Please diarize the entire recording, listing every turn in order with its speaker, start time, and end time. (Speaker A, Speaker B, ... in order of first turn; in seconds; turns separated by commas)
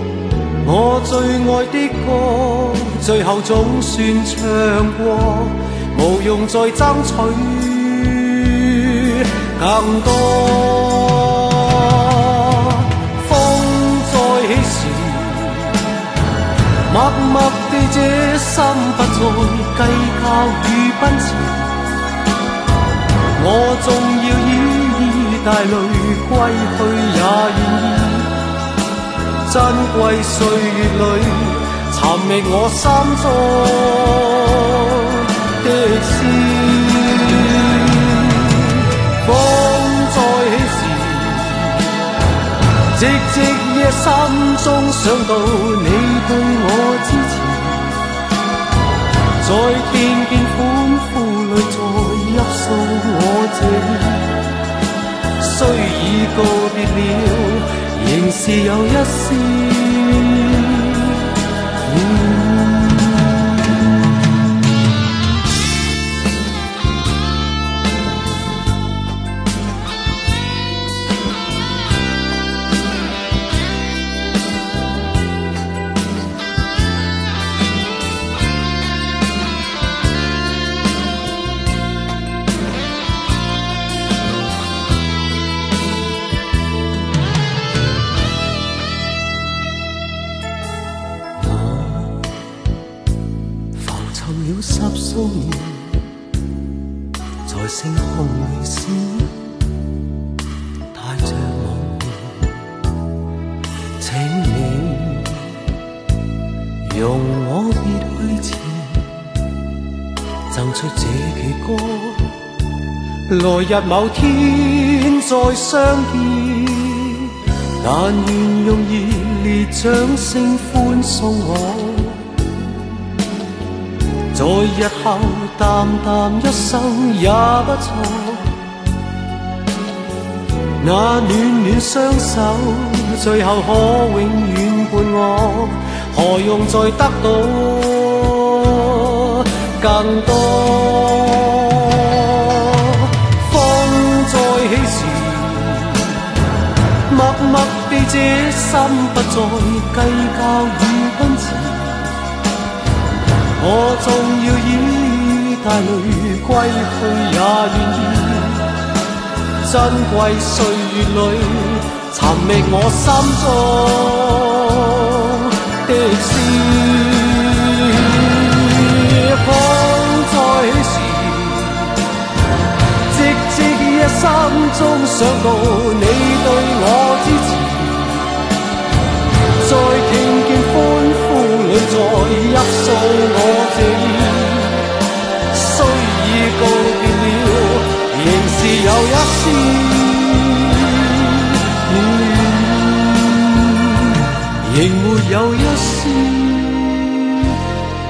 Speaker A: 0.6-15.9, Speaker A: 16.9-21.9, Speaker A: 23.4-28.4, Speaker A: 29.5-42.0, Speaker A: 42.9-48.1, Speaker A: 49.4-54.4, Speaker A: 55.4-61.3, Speaker A: 61.8-63.5, Speaker A: 91.4-92.3, Speaker A: 93.8-96.0, Speaker A: 97.5-99.3, Speaker A: 100.9-102.6, Speaker A: 104.0-105.5, Speaker A: 106.8-109.1, Speaker A: 110.5-112.3, Speaker A: 113.3-122.3, Speaker A: 124.3-128.6, Speaker A: 130.8-146.3, Speaker A: 147.1-152.2, Speaker A: 153.6-158.7, Speaker A: 159.6-172.0, Speaker A: 173.1-178.4, Speaker A: 179.6-184.9, Speaker A: 185.5-197.6